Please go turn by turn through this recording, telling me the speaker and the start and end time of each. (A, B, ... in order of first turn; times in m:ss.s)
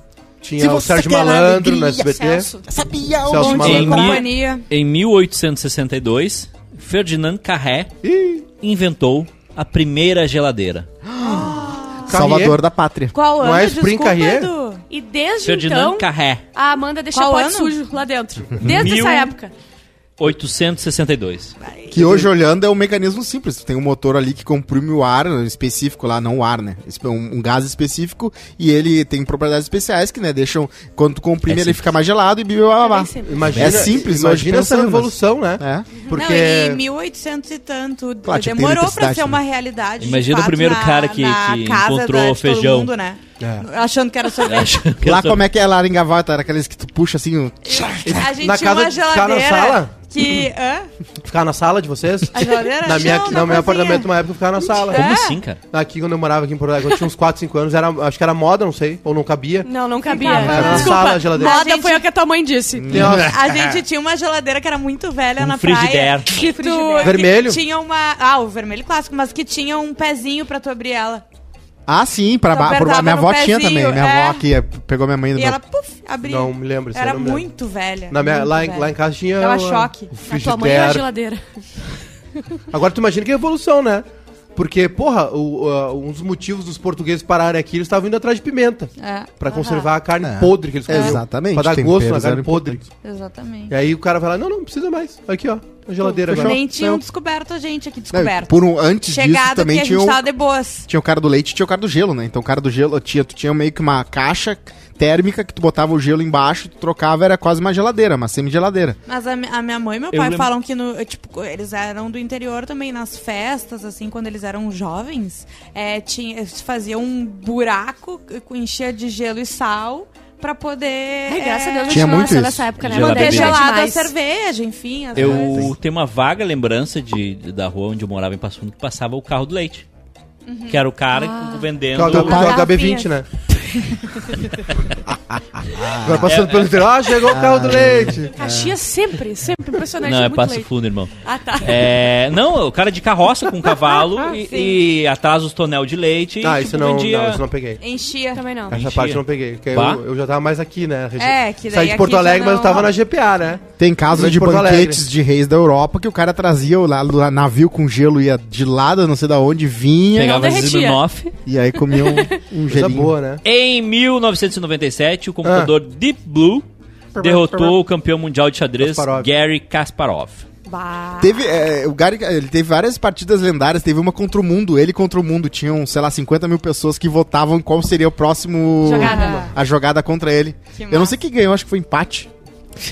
0:00.4-0:02.5 A
0:00.6-0:04.2 B
0:02.0-0:02.7 C
0:03.2-0:04.2 A
0:03.4-0:04.6 D
0:03.4-0:08.0 E
0:08.0-0:08.4 A
0:08.6-0:10.9 E
0:11.1-0:13.1 B
0:11.2-0:12.6 A
0:11.5-0:12.1 D
0:13.1-0:14.8 D
0:13.3-0:14.5 A
0:14.9-0:19.5 C
0:15.4-0:16.4 E
0:17.1-0:17.8 D
0:18.6-0:18.9 B
0:18.6-0:19.3 E
0:20.2-0:21.5 E
0:21.9-0:35.9 B
0:22.0-0:22.3 A
0:31.5-0:31.9 E
0:32.8-0:33.6 C
0:33.2-0:36.8 A
0:33.4-0:33.9 E
0:36.1-0:44.8 D
0:38.2-0:39.4 B
0:40.0-0:42.9 E
0:43.4-0:43.7 A
0:44.4-0:45.4 E
0:45.0-0:48.3 B
0:47.6-0:50.9 D
0:48.0-0:49.9 A
0:51.2-0:55.1 A
0:52.3-0:54.1 D
0:53.0-0:54.0 C
0:54.9-0:55.4 D
0:54.9-0:55.6 E
0:55.7-0:59.7 A
0:59.6-1:03.0 C
1:00.1-1:02.0 D
1:00.2-1:01.6 A
1:00.4-1:00.9 B
1:02.8-1:03.4 B
1:02.9-1:03.8 A
1:03.1-1:11.2 D
1:05.4-1:06.3 E
1:06.3-1:07.2 C
1:07.0-1:07.6 A
1:11.9-1:15.6 B
1:12.5-1:14.4 D
1:15.3-1:20.1 D
1:16.2-1:17.5 A
1:18.1-1:21.1 A
1:20.3-1:21.4 C
1:22.7-1:32.9 A
1:29.0-1:29.3 D
1:29.5-1:29.9 C
1:30.2-1:32.8 B
1:30.9-1:31.2 D
1:33.0-1:33.7 D
1:33.7-1:36.6 A
1:36.1-1:40.9 D
1:36.3-1:37.0 B
1:38.1-1:40.2 B
1:40.9-1:49.0 B
1:49.1-2:02.3 D
1:50.1-1:50.5 E
2:01.3-2:04.1 C
2:01.9-2:02.7 B
2:02.8-2:03.6 E
2:02.9-2:05.7 D
2:05.1-2:09.8 E
2:05.2-2:05.7 B
2:10.4-2:10.8 D
2:10.7-2:12.6 E
2:11.1-2:11.6 C
2:11.9-2:13.2 A
2:12.0-2:13.1 D
2:13.7-2:14.3 D
2:15.6-2:16.4 B
2:15.9-2:18.3 A
2:16.2-2:17.3 E
2:17.2-2:18.8 B
2:18.3-2:22.0 C
2:20.0-2:27.4 E
2:23.7-2:24.8 D
2:26.4-2:27.8 A
2:27.8-2:28.6 D
2:28.3-2:28.7 C
2:28.7-2:30.0 E
2:28.7-2:35.0 A
2:31.2-2:32.9 D
2:33.8-2:40.6 B
2:40.1-2:41.3 E
2:40.2-2:41.0 C
2:41.4-2:43.1 B
2:41.9-2:42.4 C
2:42.7-2:43.4 A
2:43.4-2:50.4 E
2:45.4-2:45.7 A
2:47.2-2:47.7 A
2:48.8-2:49.3 A
2:50.6-2:51.4 D
2:51.2-3:02.3 B
2:58.8-2:59.5 C
2:58.9-2:59.5 A
2:59.0-2:59.5 D
3:00.7-3:01.1 D